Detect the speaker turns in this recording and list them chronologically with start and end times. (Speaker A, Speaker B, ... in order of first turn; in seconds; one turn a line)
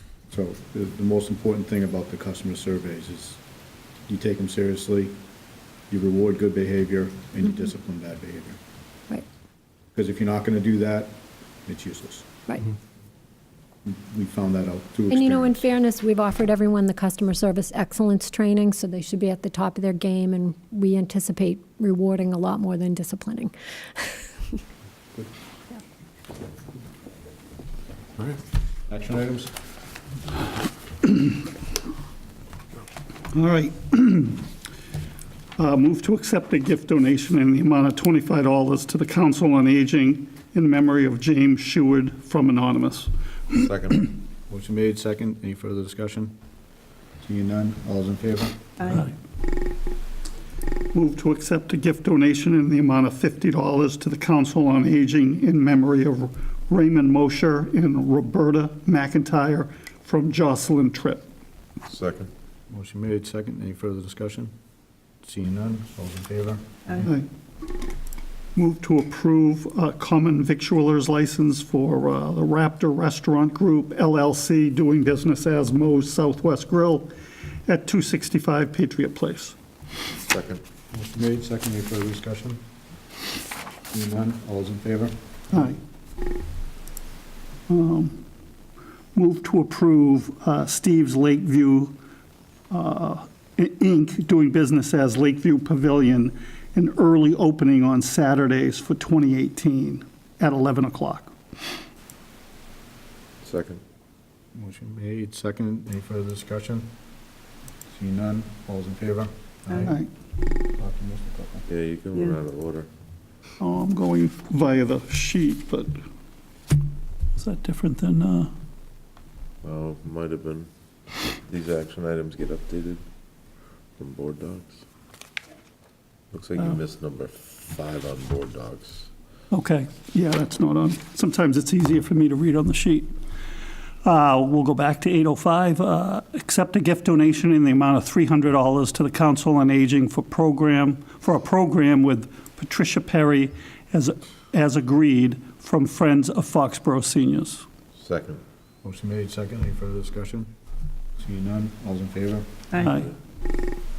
Speaker A: 0.3-3.4
Speaker A: 4.1-5.2
Speaker A: 5.9-8.6
Speaker A: 9.9-12.3
Speaker A: 13.8-15.6
Speaker B: 15.1-24.2
Speaker A: 28.9-29.5
Speaker C: 33.3-34.5
Speaker C: 35.6-43.1
Speaker D: 43.5-44.1
Speaker A: 44.5-46.4
Speaker A: 47.2-48.7
Speaker C: 50.9-61.2
Speaker D: 61.9-62.3
Speaker A: 62.7-64.5
Speaker A: 65.2-67.1
Speaker C: 68.5-77.1
Speaker C: 77.7-79.5
Speaker D: 80.1-80.6
Speaker A: 80.9-82.6
Speaker A: 83.9-85.1
Speaker C: 85.5-85.8
Speaker C: 87.7-88.2
Speaker C: 89.1-92.0
Speaker C: 92.7-101.3
Speaker D: 103.4-103.8
Speaker A: 104.5-106.9
Speaker A: 107.9-110.0
Speaker A: 110.8-111.7
Speaker D: 111.7-112.9
Speaker C: 113.6-115.9
Speaker C: 117.3-118.5
Speaker D: 119.6-120.7
Speaker D: 121.4-123.0
Speaker D: 124.0-124.8
Speaker D: 126.3-129.1
Speaker C: 129.5-133.1
Speaker C: 134.0-147.6
Speaker D: 147.9-148.4
Speaker A: 148.8-150.5
Speaker A: 151.2-152.6
Speaker C: 152.8-153.1